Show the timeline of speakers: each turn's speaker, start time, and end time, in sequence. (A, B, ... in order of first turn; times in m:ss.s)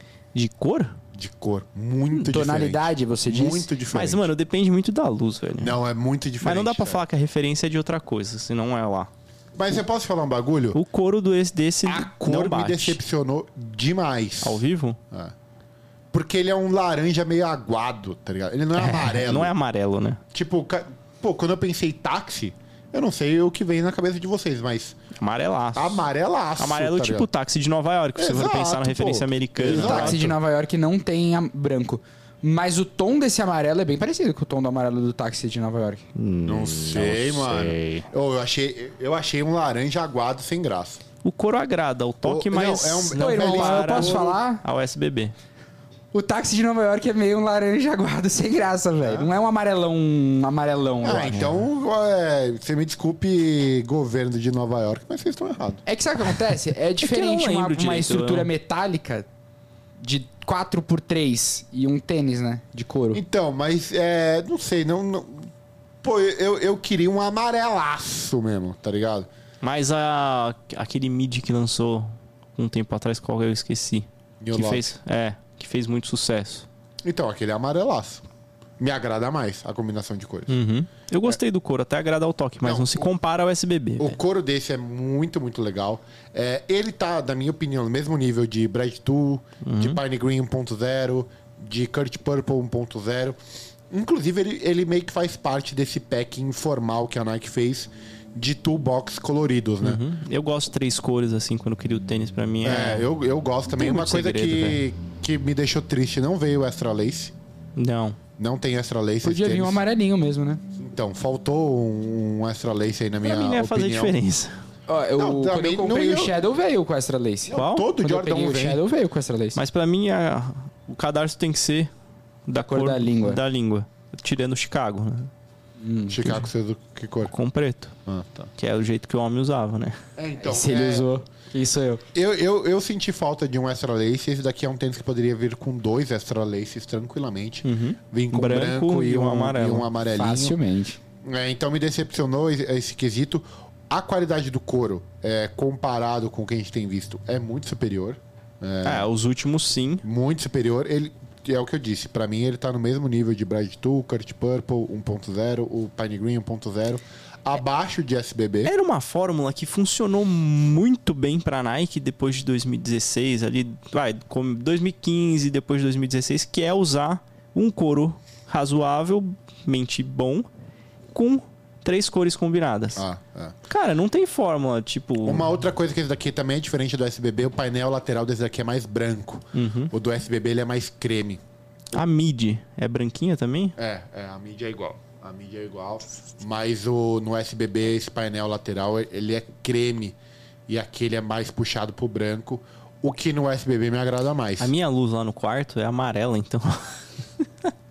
0:00.3-0:01.0 A
0:01.1-0:04.3 B
0:02.2-0:03.7 C
0:03.9-0:05.8 A
0:05.6-0:07.0 B
0:06.4-0:09.1 A
0:09.5-0:10.8 B
0:10.7-0:13.0 A
0:11.8-0:15.3 B
0:14.4-0:15.0 A
0:16.1-0:19.5 B
0:18.8-0:20.2 A
0:20.3-0:25.0 B
0:25.2-0:26.0 A
0:25.7-0:27.3 B
0:26.6-0:30.3 A
0:28.2-0:30.2 B
0:29.7-0:36.0 C
0:36.2-0:38.1 A
0:36.4-0:41.0 B
0:41.2-0:45.3 A
0:42.2-0:44.4 B
0:43.1-0:44.6 C
0:46.1-0:51.5 C
0:49.0-0:49.3 B
0:51.0-0:55.8 B
0:51.2-0:51.5 A
0:55.8-0:59.3 C
0:57.0-0:58.5 A
1:00.0-1:03.2 C
1:03.1-1:05.5 B
1:06.0-1:09.3 B
1:09.6-1:16.6 A
1:14.4-1:14.9 B
1:17.0-1:18.2 B
1:18.8-1:20.5 B
1:20.5-1:24.2 A
1:22.6-1:23.1 B
1:24.0-1:33.4 B
1:29.6-1:30.0 A
1:33.9-1:40.0 B
1:39.8-1:43.1 A
1:42.6-1:47.3 B
1:43.7-1:44.8 A
1:47.8-1:48.2 A
1:48.4-1:49.8 B
1:49.2-1:50.6 C
1:50.8-1:54.2 B
1:53.2-1:54.5 A
1:54.9-1:59.6 C
1:55.2-1:56.4 B
1:57.5-1:58.8 B
1:57.6-1:57.9 A
1:59.6-2:01.9 A
2:02.5-2:05.3 A
2:02.6-2:03.4 C
2:05.8-2:06.3 C
2:06.1-2:07.3 B
2:07.3-2:07.9 A
2:08.0-2:08.5 B
2:08.6-2:10.0 A
2:10.2-2:11.1 B
2:10.4-2:12.0 C
2:12.1-2:20.6 B
2:17.6-2:19.9 A
2:20.1-2:21.0 C
2:21.2-2:29.1 B
2:28.8-2:30.0 A
2:30.0-2:38.7 B
2:38.6-2:50.5 A
2:51.1-2:53.0 A
2:53.0-2:53.5 B
2:53.7-2:55.5 A
2:55.2-3:01.4 B
2:59.5-2:59.9 A
3:01.9-3:03.8 A
3:03.8-3:10.2 B
3:10.7-3:14.7 B
3:14.6-3:17.0 A